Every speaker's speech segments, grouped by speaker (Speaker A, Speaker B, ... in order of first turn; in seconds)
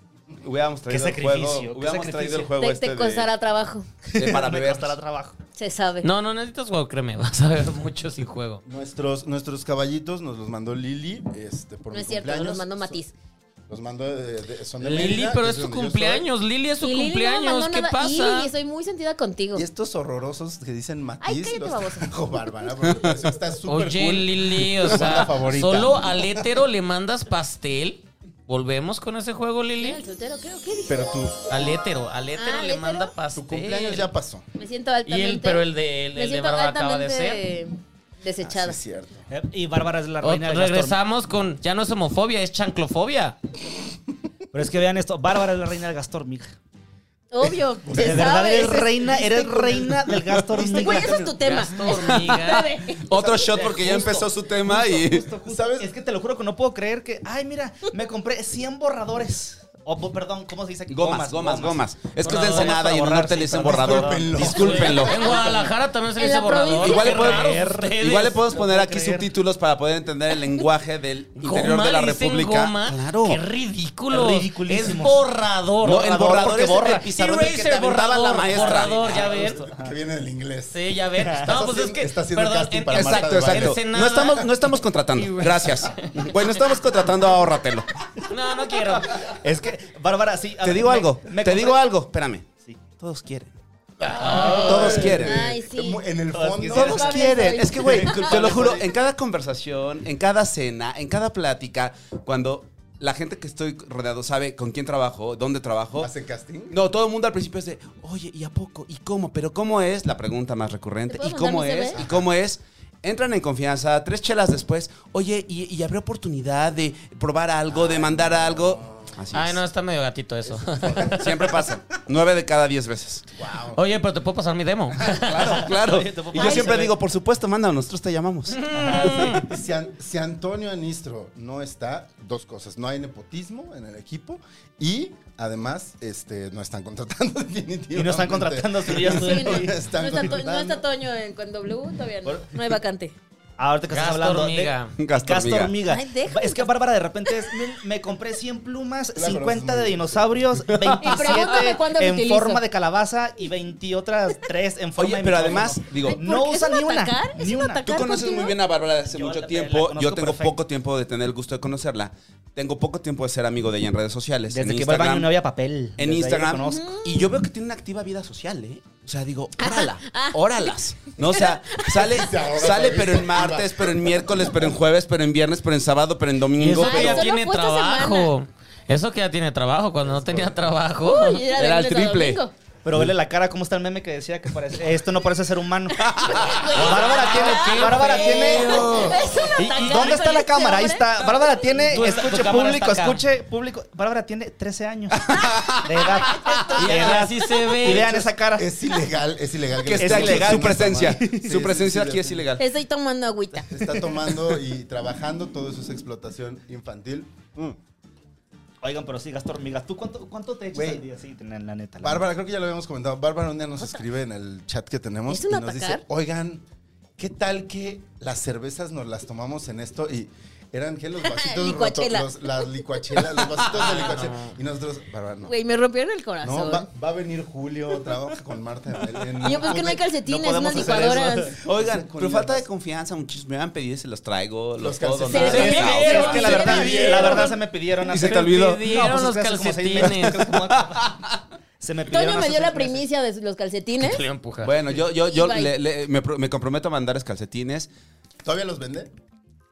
Speaker A: 0.4-3.3, 4.1-5.0, 22.8-23.3, 50.3-50.6, 53.0-55.3, 60.9-65.4, 66.8-73.4, 75.8-79.0, 82.9-87.9, 90.6-93.5, 94.3-95.5, 96.7-106.1, 106.7-119.6, 121.0-123.2, 125.3-128.6, 145.0-145.7, 150.7-151.4, 155.0-156.2, 157.8-165.3, 166.0-177.3, 181.6-182.4, 186.0-186.8, 195.2-196.8, 199.8-202.7, 231.6-236.7, 238.1-238.9, 240.1-241.4, 244.6-247.9
Speaker B: 0.9-2.5, 4.1-5.3, 39.3-41.0, 44.5-46.6, 47.9-51.2, 53.2-64.7, 67.0-69.3, 74.1-75.3, 75.8-77.0, 78.6-79.9, 81.2-81.5, 89.2-91.8, 96.3-98.0, 125.3-127.0, 128.7-129.4, 137.9-139.8, 142.2-142.6, 143.6-158.0, 159.1-160.6, 164.5-166.9, 182.8-188.9, 189.6-195.3, 195.8-198.7, 199.9-201.5, 208.8-212.2, 230.3-231.5, 235.4-241.1, 241.8-243.0
Speaker C: 2.5-3.9, 5.5-6.1, 11.9-13.1, 16.8-19.6, 21.2-22.1, 29.8-31.1, 32.4-33.1, 34.6-38.8, 47.3-49.8, 50.8-53.1, 66.2-67.1, 94.9-96.0, 96.8-98.5, 111.1-112.0, 126.4-126.7, 139.0-143.1, 145.8-146.7, 147.3-147.5, 151.0-152.6, 156.0-158.6, 166.6-167.3, 169.6-172.2, 176.7-178.3, 181.0-182.5, 186.2-191.8, 196.1-197.2, 202.6-203.8, 215.3-216.0, 221.2-223.4, 225.4-226.8, 229.4-231.6, 235.3-237.6, 242.1-244.2, 245.2-245.7
Speaker D: 6.0-8.6, 14.8-18.5, 23.7-30.0, 31.5-34.1, 35.0-37.4, 40.2-43.4, 51.1-52.7, 62.2-62.9, 64.4-68.4, 71.4-79.6, 80.7-84.5, 85.1-86.4, 88.2-89.3, 94.2-95.1, 119.3-121.2, 123.7-125.4, 128.5-129.4, 143.9-144.9, 176.7-181.4, 186.7-189.1, 191.9-193.2, 196.8-198.2, 223.7-224.5, 235.4-237.5, 238.1-240.4, 244.0-244.7
Speaker E: 8.6-13.0, 13.7-16.3, 19.5-26.4, 30.9-31.4, 33.3-34.4, 38.4-39.3, 47.9-48.4, 50.5-51.6, 55.5-55.9, 63.5-65.7, 79.0-80.8, 81.3-83.8, 94.0-97.3, 98.0-98.9, 106.0-106.8, 111.9-112.3, 117.7-119.2, 120.4-121.8, 123.4-123.8, 125.2-125.6, 128.9-140.8, 149.1-150.2, 171.9-174.7, 180.0-180.6, 188.6-189.3, 198.6-202.5, 203.7-207.8, 210.7-211.0, 212.0-216.6, 217.2-225.5, 226.4-232.7, 234.8-237.4, 248.4-249.1